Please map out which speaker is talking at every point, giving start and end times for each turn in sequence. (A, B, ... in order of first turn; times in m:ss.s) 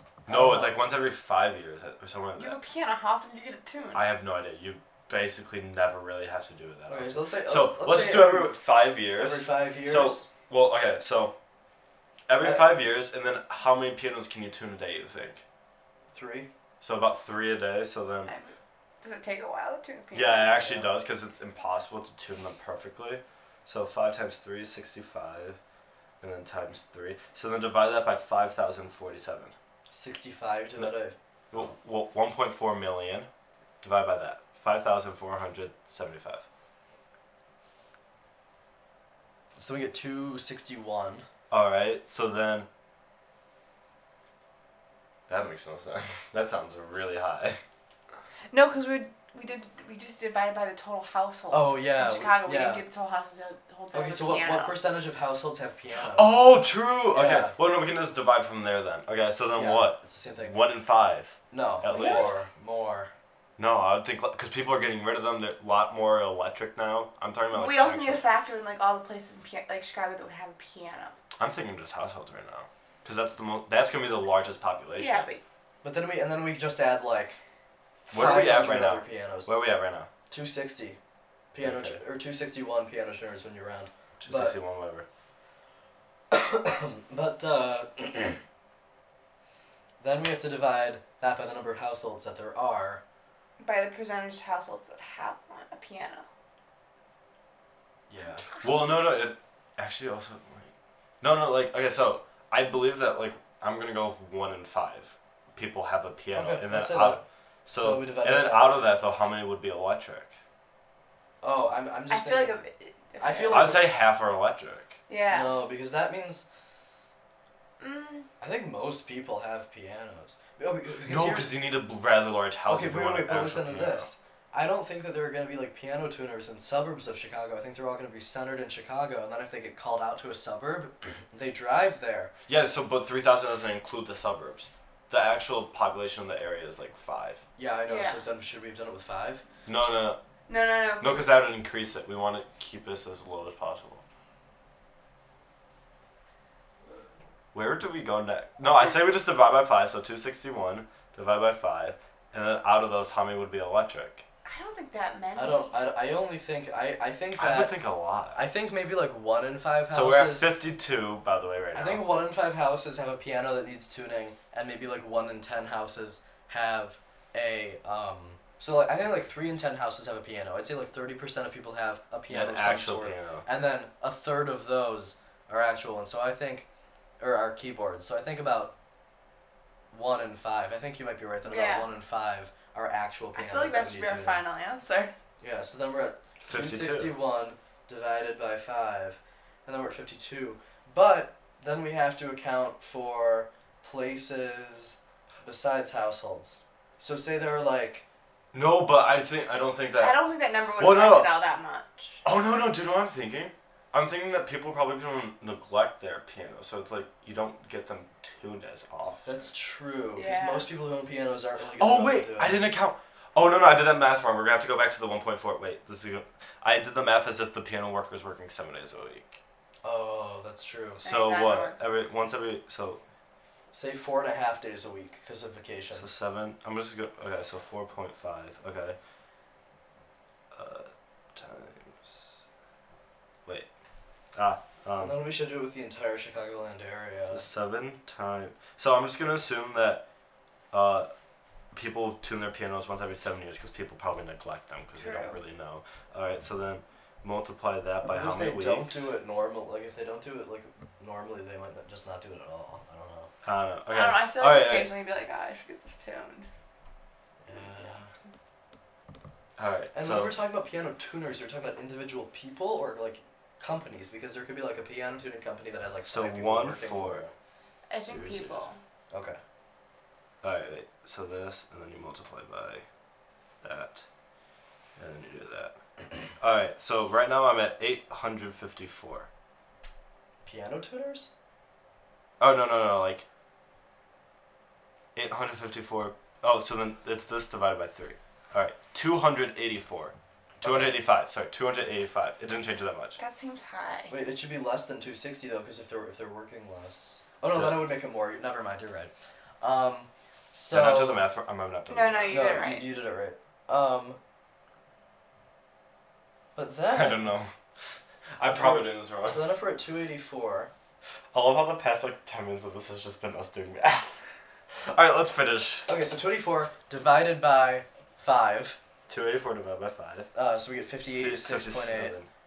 0:00.3-0:00.8 A
0:00.3-0:02.6 B
0:02.4-0:04.0 C
0:03.9-0:11.4 B
0:06.9-0:08.6 A
0:09.1-0:10.3 A
0:12.3-0:15.4 B
0:12.4-0:12.7 A
0:16.1-0:16.5 A
0:16.8-0:18.3 B
0:18.3-0:20.6 C
0:20.1-0:25.6 B
0:20.6-0:20.9 A
0:26.2-0:29.5 B
0:29.9-0:31.2 A
0:31.5-0:33.3 B
0:33.8-0:36.4 B
0:39.6-0:41.3 A
0:41.5-0:42.7 B
0:45.3-0:47.6 B
0:48.5-0:54.8 C
0:51.5-0:52.8 A
0:53.9-0:56.4 A
0:56.0-1:02.4 B
0:57.1-0:57.6 A
0:59.6-1:00.6 A
1:01.5-1:03.1 A
1:01.9-1:02.3 C
1:03.6-1:08.2 B
1:07.5-1:11.2 C
1:11.4-1:15.3 B
1:15.0-1:15.4 C
1:15.8-1:17.4 A
1:18.1-1:19.5 A
1:18.1-1:20.1 B
1:20.3-1:21.0 A
1:21.5-1:24.6 A
1:21.6-1:22.0 B
1:24.2-1:25.1 B
1:26.3-1:28.4 A
1:30.0-1:33.0 A
1:33.6-1:36.3 C
1:38.1-1:38.5 A
1:38.5-1:38.8 C
1:38.6-1:50.3 B
1:46.3-1:48.9 A
1:51.4-1:52.6 A
1:52.1-1:53.7 C
1:53.2-1:53.9 A
1:53.5-1:55.0 B
1:55.1-1:55.6 C
1:55.3-1:56.5 A
1:57.8-1:58.3 C
1:58.4-2:01.5 A
2:01.1-2:04.1 B
2:02.7-2:12.3 A
2:12.5-2:17.4 B
2:17.6-2:19.4 A
2:17.9-2:18.2 C
2:19.7-2:20.2 B
2:20.5-2:21.3 C
2:21.0-2:24.0 B
2:27.5-2:34.2 B
2:34.4-2:35.8 C
2:35.4-2:37.8 A
2:37.4-2:38.4 B
2:38.3-2:40.5 A
2:39.9-2:42.1 B
2:41.7-2:56.7 A
2:52.3-2:53.4 B
2:57.2-2:58.7 A
2:59.9-3:04.4 A
3:01.4-3:01.9 C
3:03.4-3:05.1 C
3:05.4-3:18.0 A
3:06.4-3:07.2 B
3:18.5-3:20.2 B
3:20.0-3:22.2 C
3:20.8-3:21.3 B
3:22.2-3:29.5 B
3:29.2-3:32.7 A
3:30.1-3:30.7 C
3:31.8-3:39.4 B
3:39.8-3:41.0 A
3:41.0-3:43.0 B
3:41.0-3:41.8 C
3:43.7-3:46.1 A
3:46.0-3:49.0 B
3:50.5-3:52.3 B
3:54.3-3:55.2 B
3:55.0-3:57.5 A
3:57.3-4:00.0 B
4:00.7-4:01.1 B
4:01.7-4:09.1 B
4:05.0-4:05.4 C
4:08.1-4:13.3 A
4:13.4-4:14.9 B
4:13.9-4:16.5 C
4:17.4-4:18.1 A
4:19.6-4:20.4 B
4:19.9-4:27.3 A
4:26.1-4:27.3 B
4:27.9-4:28.8 C
4:28.0-4:28.7 B
4:29.1-4:29.4 A
4:30.4-4:32.8 B
4:33.6-4:34.1 B
4:35.0-4:35.8 B
4:36.4-4:39.3 B
4:40.4-4:41.3 A
4:42.4-4:43.2 B
4:45.2-4:53.2 B
4:50.6-4:51.0 A
4:53.2-4:54.1 C
4:54.1-5:01.3 A
4:57.5-4:57.9 B
5:00.7-5:02.5 B
5:01.9-5:02.9 C
5:02.3-5:04.2 A
5:06.6-5:07.3 A
5:06.9-5:09.5 B
5:08.5-5:10.7 A
5:11.3-5:14.2 B
5:14.8-5:15.9 B
5:15.9-5:18.8 A
5:19.1-5:20.3 B
5:20.3-5:22.2 A
5:21.1-5:22.3 B